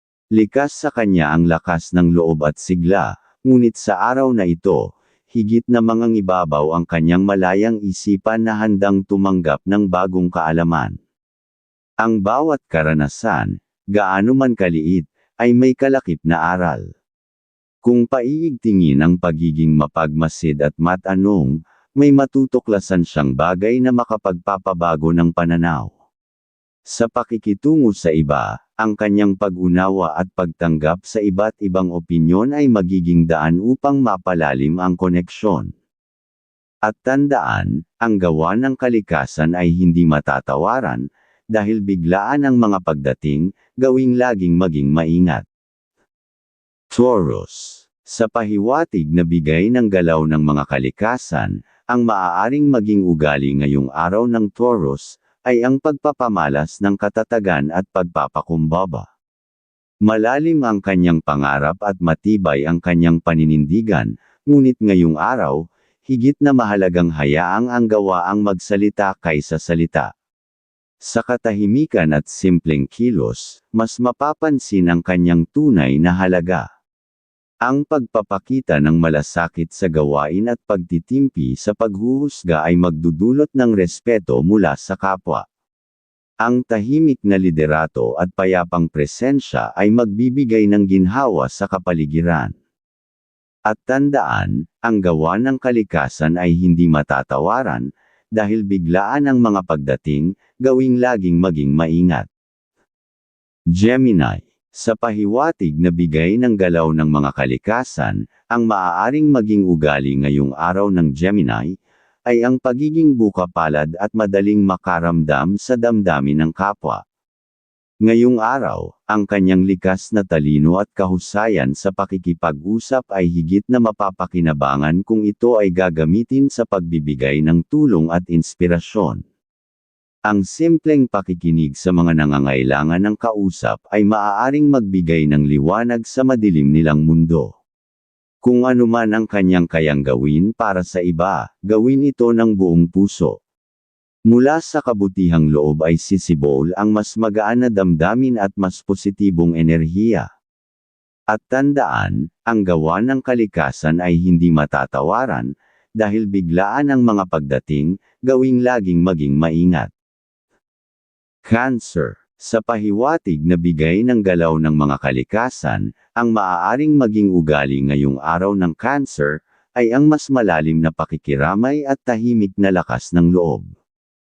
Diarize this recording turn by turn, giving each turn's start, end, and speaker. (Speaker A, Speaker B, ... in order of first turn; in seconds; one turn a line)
Speaker A: 0.4-11.0
Speaker A: 12.0-16.9
Speaker A: 17.8-25.9
Speaker A: 26.9-35.7
Speaker A: 36.9-45.5
Speaker A: 46.9-59.1
Speaker A: 60.0-70.1
Speaker A: 71.0-76.7
Speaker A: 77.7-85.5
Speaker A: 86.4-92.5
Speaker A: 93.7-102.3
Speaker A: 103.7-117.0
Speaker A: 118.0-129.2
Speaker A: 130.3-137.5
Speaker A: 138.4-143.4
Speaker A: 144.3-150.3
Speaker A: 151.3-159.9
Speaker A: 161.4-173.7